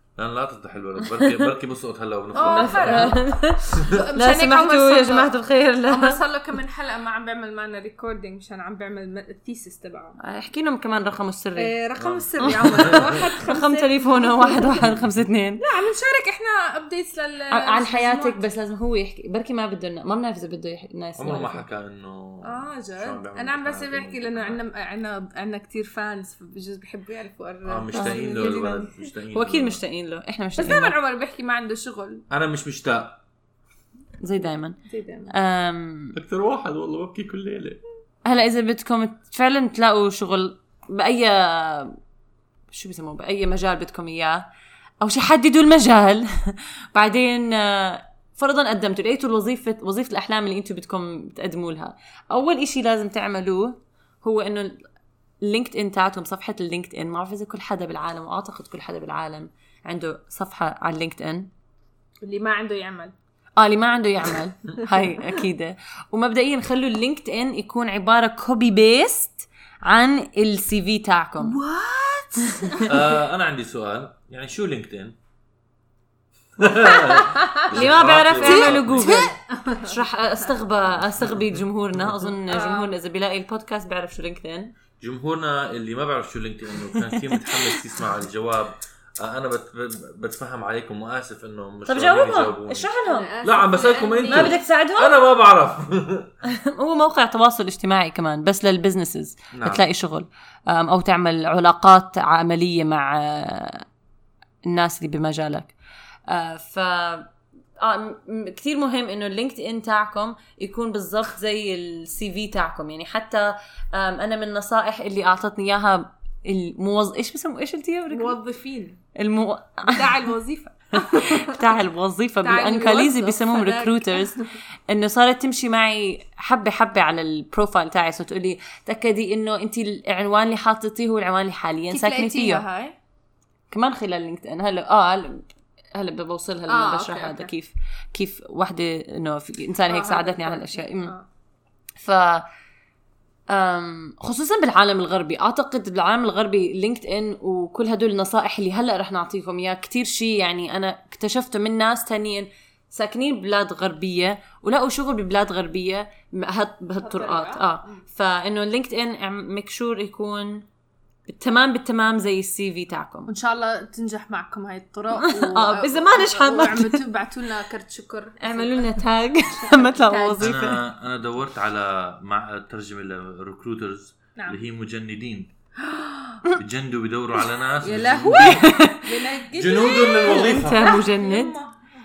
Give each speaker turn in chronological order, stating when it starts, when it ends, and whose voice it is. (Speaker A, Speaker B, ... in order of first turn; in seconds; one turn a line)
Speaker A: 0.2-3.2
Speaker B: 1.0-1.5
Speaker C: 2.4-3.2
Speaker B: 2.4-6.2
Speaker C: 3.8-5.3
Speaker C: 5.9-10.2
Speaker B: 10.2-11.7
Speaker C: 11.6-14.8
Speaker A: 12.0-13.2
Speaker B: 12.4-15.6
Speaker C: 15.6-18.4
Speaker B: 17.5-21.6
Speaker A: 21.2-24.6
Speaker C: 22.4-29.1
Speaker A: 27.7-29.8
Speaker B: 27.9-28.7
Speaker B: 29.3-31.0
Speaker C: 30.6-32.2
Speaker A: 32.3-33.2
Speaker B: 34.2-36.2
Speaker C: 34.9-35.3
Speaker A: 36.1-37.8
Speaker B: 38.2-42.0
Speaker B: 42.7-44.5
Speaker B: 45.0-54.8
Speaker B: 55.4-61.5
Speaker C: 62.2-63.1
Speaker B: 63.6-71.6
Speaker C: 64.9-65.2
Speaker C: 71.4-72.9
Speaker B: 72.5-72.9
Speaker A: 72.8-75.2
Speaker A: 76.6-79.2
Speaker C: 77.2-77.6
Speaker B: 77.7-84.7
Speaker C: 78.4-79.9
Speaker C: 82.5-82.9
Speaker A: 85.0-92.9
Speaker B: 87.0-87.8
Speaker B: 91.9-93.3
Speaker C: 93.0-94.6
Speaker A: 93.4-96.3
Speaker B: 94.3-95.2
Speaker B: 96.4-103.9
Speaker A: 99.5-99.8
Speaker B: 104.7-105.7
Speaker B: 106.3-118.4
Speaker C: 118.1-119.0
Speaker B: 119.2-120.2
Speaker C: 119.9-121.8
Speaker B: 120.9-124.4
Speaker C: 122.4-124.5
Speaker B: 124.9-132.7
Speaker C: 131.9-132.9
Speaker B: 133.7-141.1
Speaker C: 136.7-137.5
Speaker C: 139.9-141.2
Speaker B: 142.0-142.4
Speaker B: 143.5-160.7
Speaker C: 157.0-158.0
Speaker B: 161.3-163.3
Speaker C: 163.3-168.9
Speaker B: 165.2-167.0
Speaker B: 168.4-170.8
Speaker C: 169.8-170.5
Speaker A: 170.4-175.5
Speaker C: 175.8-176.4
Speaker A: 176.6-178.7
Speaker C: 177.8-181.8
Speaker B: 178.3-179.3
Speaker A: 179.5-180.8
Speaker B: 179.9-181.6